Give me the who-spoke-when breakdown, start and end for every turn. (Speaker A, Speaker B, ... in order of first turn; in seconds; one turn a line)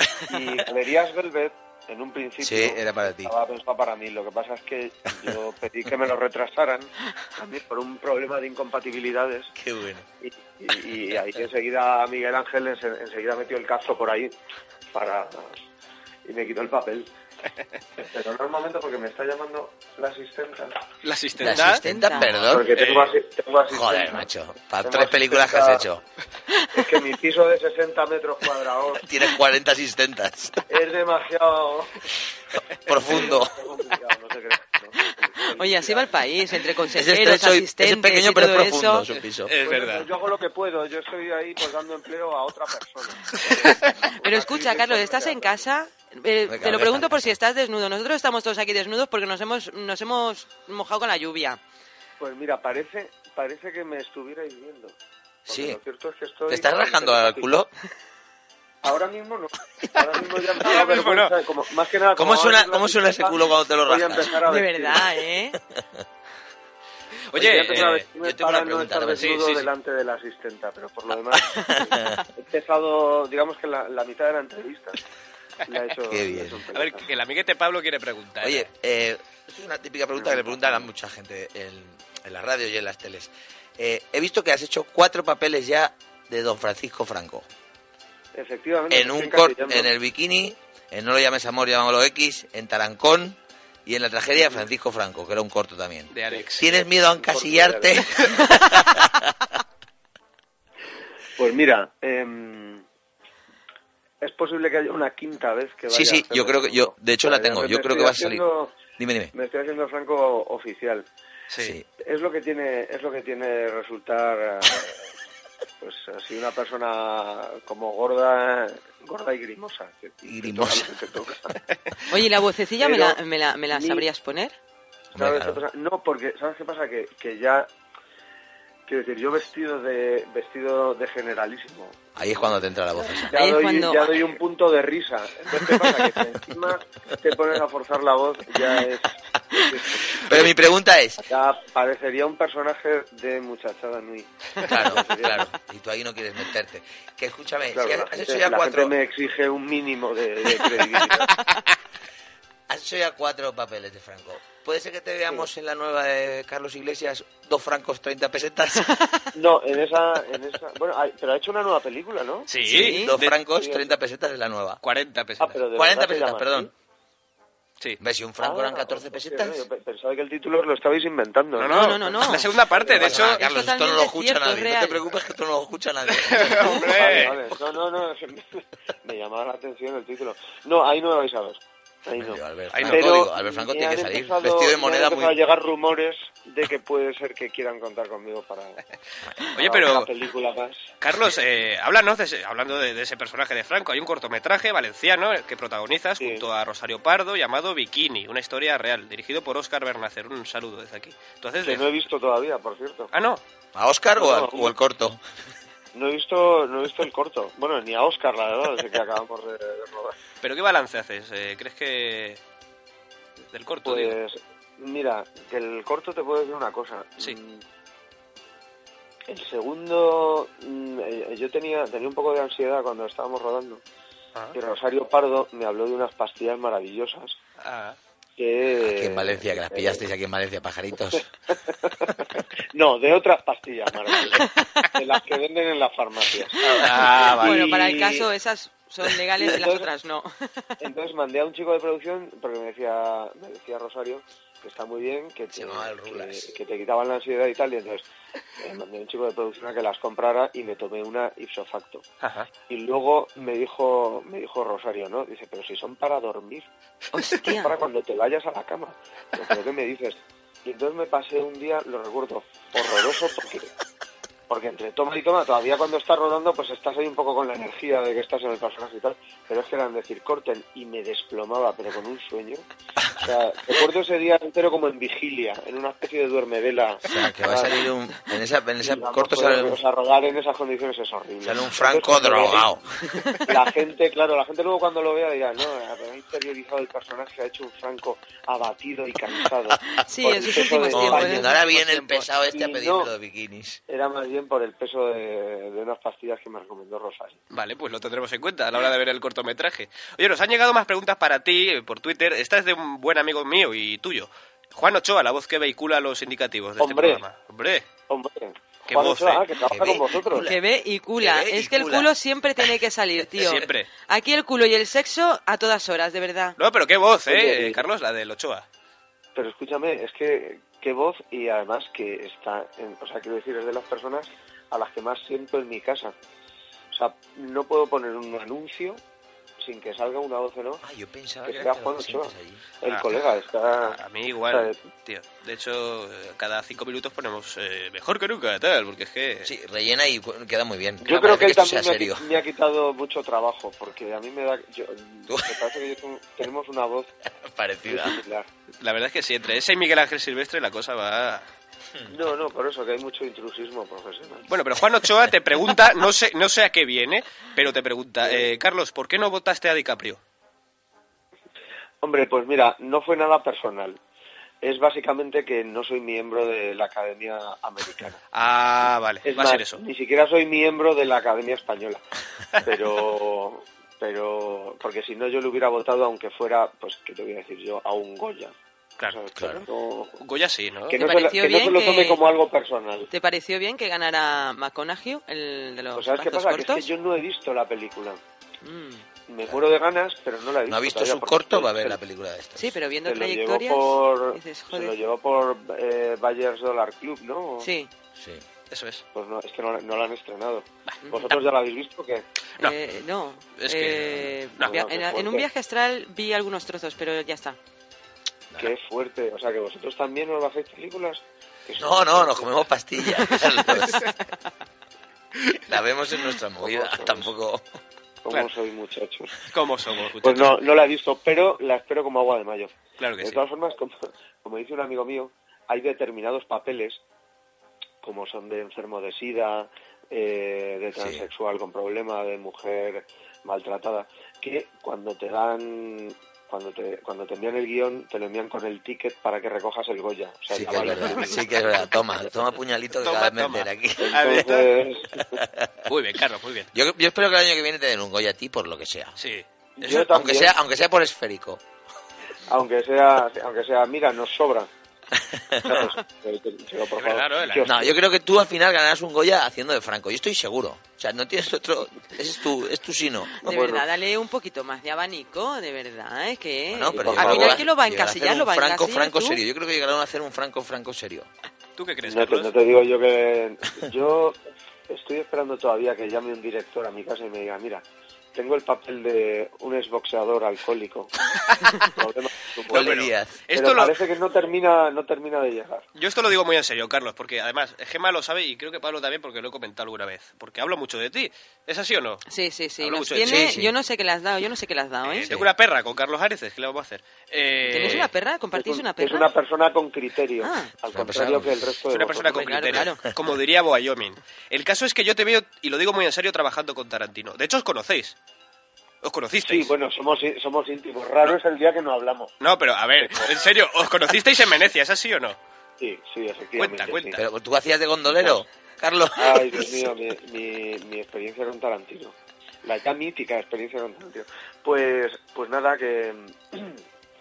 Speaker A: 0.3-9.5
Speaker B: 2.4-3.3
Speaker B: 9.6-10.1
Speaker A: 10.2-14.3
Speaker A: 14.9-15.5
Speaker A: 16.2-17.1
Speaker A: 18.0-20.8
Speaker C: 21.0-23.2
Speaker B: 21.4-22.7
Speaker D: 21.4-22.3
Speaker A: 22.4-24.3
Speaker B: 23.7-26.0
Speaker A: 24.8-25.9
Speaker A: 26.7-29.1
Speaker B: 29.0-30.6
Speaker A: 30.7-32.0
Speaker B: 32.9-33.6
Speaker A: 32.9-36.2
Speaker D: 35.5-39.1
Speaker B: 36.9-39.5
Speaker C: 39.1-40.1
Speaker A: 39.6-45.7
Speaker D: 44.2-51.6
Speaker B: 46.5-47.4
Speaker A: 52.2-57.5
Speaker B: 55.5-55.8
Speaker B: 56.5-57.7
Speaker A: 58.8-65.1
Speaker C: 60.6-61.3
Speaker B: 62.2-64.4
Speaker D: 64.4-65.6
Speaker C: 67.3-68.1
Speaker A: 67.4-75.0
Speaker B: 68.2-69.4
Speaker C: 69.2-69.7
Speaker B: 71.4-72.2
Speaker A: 75.7-77.1
Speaker B: 76.1-76.6
Speaker C: 76.7-78.7
Speaker B: 78.4-87.5
Speaker A: 80.2-80.8
Speaker A: 88.3-89.9
Speaker B: 88.9-99.3
Speaker A: 94.4-94.6
Speaker C: 96.1-96.8
Speaker A: 96.3-98.1
Speaker A: 101.4-102.8
Speaker A: 104.2-108.8
Speaker B: 105.9-108.5
Speaker B: 109.0-109.3
Speaker A: 109.3-111.1
Speaker C: 111.5-111.8
Speaker B: 111.6-111.8
Speaker A: 112.0-115.0
Speaker A: 115.8-121.6
Speaker B: 120.2-120.9
Speaker D: 122.1-124.5
Speaker A: 122.8-123.2
Speaker A: 123.7-124.1
Speaker A: 125.1-127.7
Speaker B: 125.2-125.6
Speaker A: 128.9-140.5
Speaker B: 132.2-133.4
Speaker D: 133.3-134.2
Speaker B: 140.1-141.3
Speaker A: 141.2-145.5
Speaker B: 144.6-148.9
Speaker A: 147.7-151.3
Speaker B: 152.7-158.9
Speaker A: 159.3-162.5
Speaker C: 162.5-163.4
Speaker B: 162.6-164.8
Speaker D: 162.7-163.1
Speaker A: 163.4-163.9
Speaker C: 164.8-165.6
Speaker A: 165.4-166.7
Speaker B: 165.7-166.7
Speaker B: 168.0-169.6
Speaker A: 168.4-173.3
Speaker C: 171.6-173.4
Speaker D: 171.7-172.5
Speaker B: 172.9-177.3
Speaker D: 173.1-175.0
Speaker C: 176.1-177.4
Speaker A: 176.9-188.8
Speaker B: 182.2-185.4
Speaker C: 182.7-183.3
Speaker C: 189.6-190.1
Speaker A: 189.6-190.8
Speaker C: 191.0-201.9
Speaker A: 196.2-196.5
Speaker A: 201.6-203.1
Speaker C: 203.1-203.4
Speaker B: 203.8-205.2
Speaker A: 204.2-204.7
Speaker A: 205.9-210.2
Speaker C: 210.4-212.4
Speaker C: 213.5-214.2
Speaker A: 213.8-217.6
Speaker A: 219.3-223.8
Speaker A: 224.5-227.4
Speaker C: 227.6-228.0
Speaker A: 228.4-230.0
Speaker B: 228.8-231.3
Speaker A: 231.6-238.3
Speaker B: 236.6-237.6
Speaker C: 236.8-237.6
Speaker D: 237.4-240.7
Speaker A: 239.4-239.9
Speaker A: 240.8-248.1
Speaker B: 245.5-246.5
Speaker A: 248.6-252.0
Speaker C: 252.2-252.5
Speaker A: 252.7-256.7
Speaker D: 257.1-257.8
Speaker A: 257.4-263.7
Speaker A: 264.5-277.8
Speaker B: 277.1-279.8
Speaker A: 278.8-282.7
Speaker B: 281.4-282.9
Speaker A: 283.5-293.1
Speaker D: 290.0-291.6
Speaker B: 290.9-293.8
Speaker A: 293.9-297.4
Speaker C: 297.5-307.9
Speaker A: 306.8-307.2
Speaker A: 308.1-310.5
Speaker C: 308.9-309.4
Speaker B: 309.7-310.6
Speaker D: 310.3-316.6
Speaker B: 311.2-312.1
Speaker C: 313.4-313.9
Speaker C: 316.6-318.7
Speaker A: 317.3-317.8
Speaker A: 319.4-326.1
Speaker A: 326.9-329.0
Speaker A: 329.6-330.8
Speaker B: 330.8-332.7
Speaker A: 331.4-334.0
Speaker C: 332.8-333.1
Speaker C: 333.8-339.5
Speaker A: 334.5-334.8
Speaker B: 339.4-342.2
Speaker A: 341.0-347.1
Speaker B: 345.3-345.6
Speaker B: 347.4-348.2
Speaker A: 347.9-348.5
Speaker C: 348.8-351.4
Speaker A: 352.1-354.5
Speaker C: 354.5-360.2
Speaker A: 362.0-364.0
Speaker A: 364.6-368.2
Speaker C: 368.3-369.8
Speaker A: 369.2-372.0
Speaker A: 372.6-380.2
Speaker B: 379.4-379.7
Speaker C: 380.2-381.0
Speaker A: 380.9-383.1
Speaker D: 381.0-382.2
Speaker D: 383.1-386.9
Speaker A: 385.9-388.2
Speaker D: 388.6-389.1
Speaker A: 389.3-392.0
Speaker B: 390.7-392.8
Speaker D: 392.6-395.0
Speaker A: 393.0-397.7
Speaker D: 397.6-397.9
Speaker B: 398.2-398.4
Speaker C: 398.7-399.0
Speaker A: 399.1-402.3
Speaker D: 401.1-401.4
Speaker D: 402.6-407.6
Speaker C: 403.6-404.8
Speaker A: 404.6-405.5
Speaker A: 408.6-412.5
Speaker B: 411.8-414.1
Speaker B: 415.7-417.6
Speaker A: 416.6-417.3
Speaker A: 418.2-419.3
Speaker C: 419.5-420.6
Speaker A: 420.2-427.0
Speaker C: 423.0-423.4
Speaker A: 428.0-441.8
Speaker B: 431.0-431.3
Speaker B: 440.5-444.3
Speaker C: 443.0-444.7
Speaker A: 444.0-445.4
Speaker B: 445.3-445.7
Speaker C: 445.9-446.7
Speaker B: 446.7-449.2
Speaker C: 449.2-449.4
Speaker A: 449.8-450.5
Speaker B: 449.9-451.6
Speaker A: 452.5-454.7
Speaker B: 455.3-455.9
Speaker A: 455.6-457.9
Speaker C: 457.0-457.7
Speaker B: 457.6-463.6
Speaker D: 463.4-469.4
Speaker A: 463.5-463.9
Speaker B: 466.7-471.3
Speaker A: 466.9-467.6
Speaker C: 471.8-472.5
Speaker A: 472.1-481.1
Speaker A: 481.9-483.0
Speaker B: 482.7-483.4
Speaker C: 482.7-484.0
Speaker A: 483.5-485.9
Speaker C: 486.0-492.2
Speaker D: 492.3-495.3
Speaker C: 492.8-493.6
Speaker B: 493.2-493.7
Speaker C: 495.0-498.1
Speaker D: 497.7-499.3
Speaker A: 498.5-502.7
Speaker D: 500.4-500.7
Speaker B: 500.9-501.8
Speaker C: 501.9-508.2
Speaker D: 502.3-503.0
Speaker C: 509.0-509.7
Speaker A: 509.4-512.3
Speaker C: 512.4-515.4
Speaker A: 513.0-513.3
Speaker A: 515.8-517.2
Speaker C: 516.6-517.2
Speaker B: 517.1-519.9
Speaker A: 519.2-526.8